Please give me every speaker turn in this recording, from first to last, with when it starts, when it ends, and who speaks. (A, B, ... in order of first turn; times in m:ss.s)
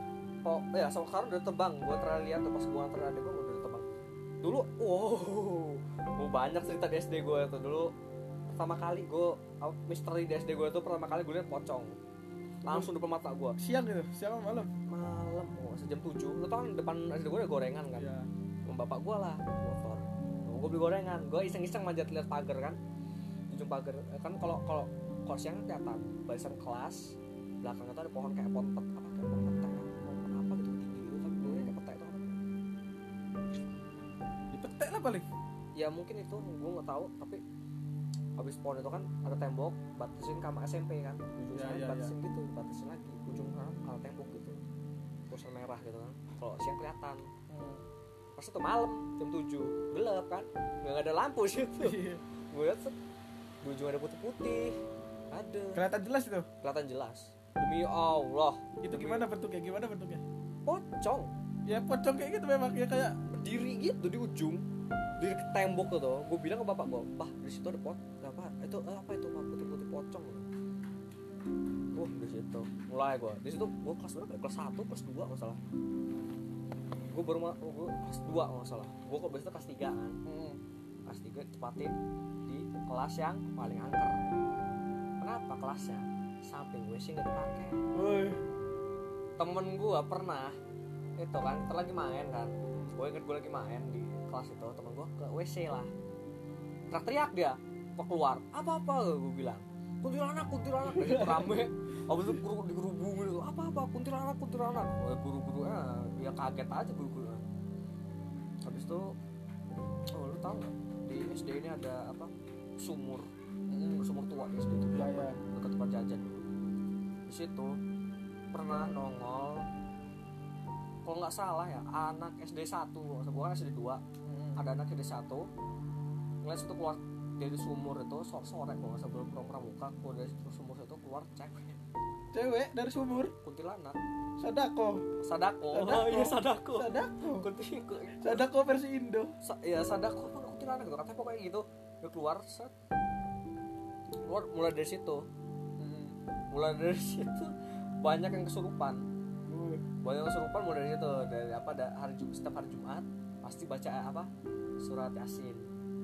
0:00.4-0:03.9 A
0:04.4-0:07.9 A
0:08.5-0:12.0 A
0:12.6-0:13.6 A
0:12.6-0:12.9 B
0:13.6-0:14.7 B
0:14.9-0:18.1 A
0:18.0-0:18.3 B
0:18.6-0:22.8 A
0:23.5-0:32.4 A
0:31.4-0:31.7 B
0:34.5-0:35.2 B
0:35.8-0:37.4 A
0:38.4-0:44.6 A
0:41.5-0:42.1 B
0:45.3-0:47.3 A
0:47.5-0:47.8 B
0:48.4-0:52.0 A
0:51.8-0:52.2 B
0:52.5-0:53.0 A
0:53.6-0:54.8 A
0:55.3-0:55.8 A
0:55.7-0:56.5 B
0:56.6-0:59.3 A
0:58.8-1:00.2 B
1:00.6-1:01.3 A
1:01.6-1:03.2 B
1:03.3-1:04.6 A
1:05.2-1:10.5 A
1:11.9-1:15.6 A
1:17.1-1:20.2 A
1:20.2-1:20.6 B
1:21.0-1:24.3 A
1:25.2-1:27.8 A
1:27.9-1:28.4 B
1:29.4-1:30.6 A
1:31.2-1:35.9 A
1:32.6-1:32.9 B
1:36.9-1:47.4 A
1:40.8-1:41.6 B
1:48.6-1:49.1 A
1:50.1-1:53.3 A
1:53.7-1:54.0 B
1:54.0-1:56.4 A
1:54.9-1:55.4 B
1:57.3-1:57.8 A
1:58.5-1:59.6 A
2:01.0-2:04.0 A
2:04.2-2:04.6 B
2:04.6-2:05.5 A
2:06.4-2:11.8 A
2:12.3-2:13.3 B
2:13.4-2:14.0 A
2:14.4-2:15.0 B
2:15.2-2:18.4 A
2:15.7-2:17.5 B
2:18.2-2:19.3 B
2:19.4-2:22.7 A
2:24.2-2:25.3 A
2:25.8-2:26.2 B
2:26.5-2:29.0 A
2:29.4-2:29.8 B
2:30.0-2:34.3 A
2:34.8-2:35.7 A